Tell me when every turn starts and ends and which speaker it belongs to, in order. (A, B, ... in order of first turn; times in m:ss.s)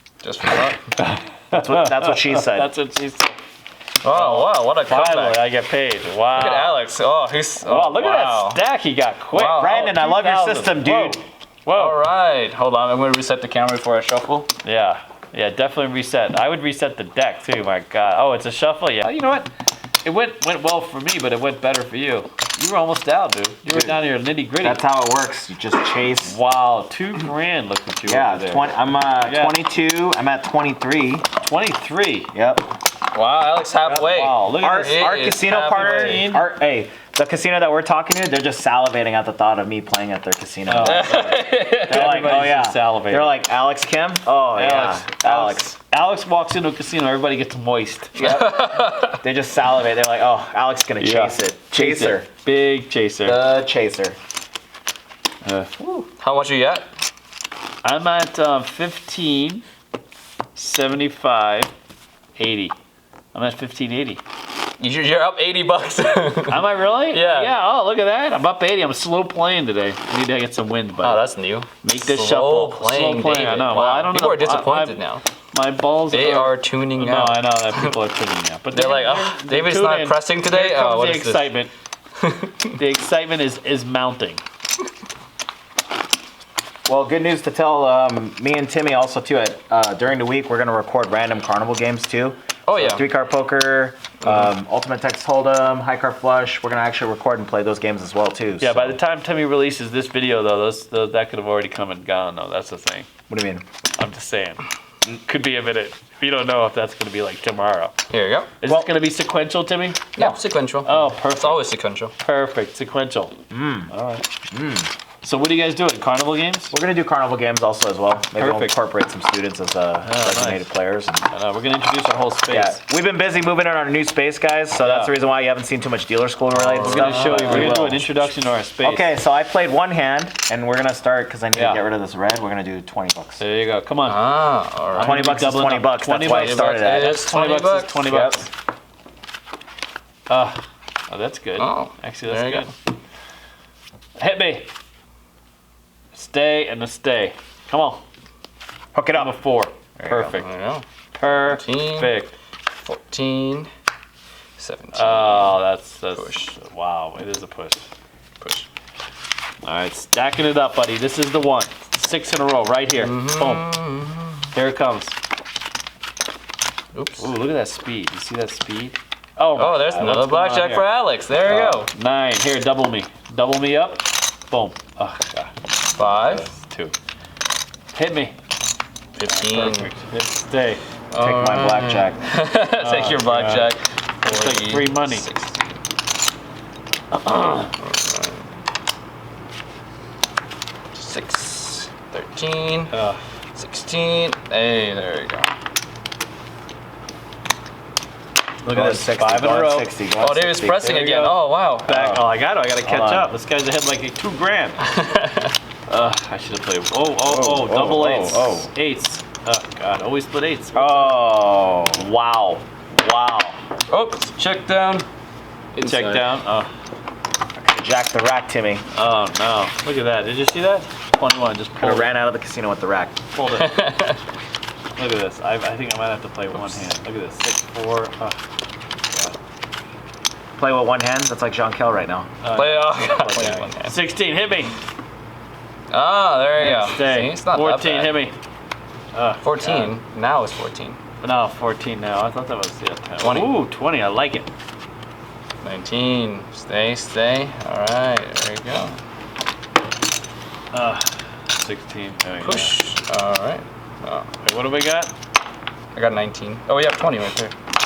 0:00.2-0:00.8 A
0:01.0-0:03.3 B
0:01.5-0:02.7 C
0:04.0-0:05.4 A
0:04.1-0:06.8 B
0:06.3-0:08.6 A
0:07.6-0:12.0 B
0:09.3-0:09.8 A
0:09.6-0:11.2 C
0:11.7-0:14.5 A
0:14.6-0:19.5 B
0:20.0-0:24.9 B
0:23.7-0:24.0 C
0:24.6-0:26.4 C
0:26.2-0:29.6 B
0:28.1-0:31.3 C
0:31.4-0:32.3 B
0:32.3-0:32.7 C
0:33.1-0:36.4 A
0:33.8-0:45.8 C
0:33.9-0:36.5 B
0:40.7-0:43.4 B
0:40.8-0:42.3 A
0:44.5-0:48.2 B
0:48.2-0:52.3 C
0:48.2-0:49.2 A
0:51.0-0:53.4 B
0:53.2-0:54.2 C
0:55.4-0:56.0 B
0:56.2-0:56.9 A
0:57.8-0:59.6 B
1:00.6-1:01.7 B
1:02.4-1:02.8 B
1:03.3-1:04.2 B
1:04.8-1:07.6 A
1:06.5-1:11.3 B
1:11.0-1:15.2 A
1:11.8-1:21.7 B
1:16.1-1:18.0 A
1:18.7-1:21.5 A
1:22.2-1:22.8 A
1:22.7-1:24.4 B
1:26.9-1:39.0 C
1:32.7-1:33.0 A
1:34.2-1:34.5 A
1:38.6-1:43.1 B
1:43.3-1:43.6 C
1:44.0-1:48.0 B
1:48.1-1:48.5 A
1:48.6-1:50.1 B
1:50.2-1:52.1 A
1:50.8-1:51.7 B
1:52.2-1:53.4 B
1:53.5-1:53.9 C
1:53.9-1:54.3 B
1:54.5-1:54.9 C
1:55.2-1:56.8 B
1:56.7-2:01.3 C
1:58.4-1:58.8 B
2:00.0-2:00.7 B
2:01.3-2:02.8 B
2:02.5-2:08.1 C
2:04.8-2:05.1 B
2:06.5-2:08.0 A
2:06.8-2:09.1 B
2:08.8-2:13.4 C
2:11.6-2:11.8 B
2:13.4-2:14.3 B
2:14.0-2:15.2 A
2:14.9-2:17.2 C
2:15.0-2:18.5 B
2:16.2-2:18.1 A
2:18.1-2:18.4 C
2:20.3-2:22.7 B
2:21.6-2:22.7 A
2:24.2-2:24.7 B
2:26.1-2:28.0 B
2:28.9-2:29.4 C
2:29.1-2:30.5 B
2:30.0-2:30.3 C
2:30.3-2:32.2 A
2:31.1-2:32.4 B
2:32.7-2:33.7 A
2:34.6-2:35.6 A
2:34.9-2:37.9 B
2:36.1-2:36.5 A
2:38.4-2:38.7 A
2:39.6-2:43.7 B
2:42.9-2:44.5 A
2:44.5-2:45.2 B
2:46.9-2:47.3 A
2:47.2-2:57.0 B
2:49.6-2:51.9 A
2:56.0-2:56.5 A
2:57.9-2:58.4 B
2:59.2-2:59.9 A
2:59.3-3:00.8 B
3:01.1-3:05.8 A
3:01.2-3:02.2 C
3:02.8-3:05.3 B
3:07.1-3:07.7 B
3:07.8-3:08.5 A
3:10.9-3:12.9 A
3:12.9-3:13.2 B
3:13.6-3:15.5 A
3:18.6-3:19.9 B
3:18.7-3:21.0 C
3:20.2-3:22.1 A
3:20.8-3:24.9 B
3:21.9-3:22.2 C
3:22.8-3:23.3 C
3:24.9-3:25.5 A
3:25.9-3:31.3 B
3:27.2-3:28.7 C
3:30.7-3:32.0 C
3:32.0-3:33.6 B
3:33.9-3:35.1 A
3:35.8-3:36.3 A
3:35.8-3:36.7 B
3:37.6-3:38.8 C
3:38.9-3:42.2 B
3:41.8-3:43.2 C
3:43.3-3:43.8 B
3:43.5-3:44.2 A
3:45.0-3:48.4 B
3:50.6-3:52.3 C
3:52.4-3:54.7 B
3:52.5-3:54.0 A
3:53.3-3:53.6 C
3:55.9-3:58.2 A
3:56.6-3:58.4 B
3:59.1-3:59.9 B
3:59.4-4:01.0 A
4:01.2-4:04.5 B
4:03.2-4:03.6 A
4:05.6-4:09.0 A
4:10.7-4:12.8 B
4:12.4-4:14.3 A
4:14.4-4:15.1 B
4:15.9-4:17.5 A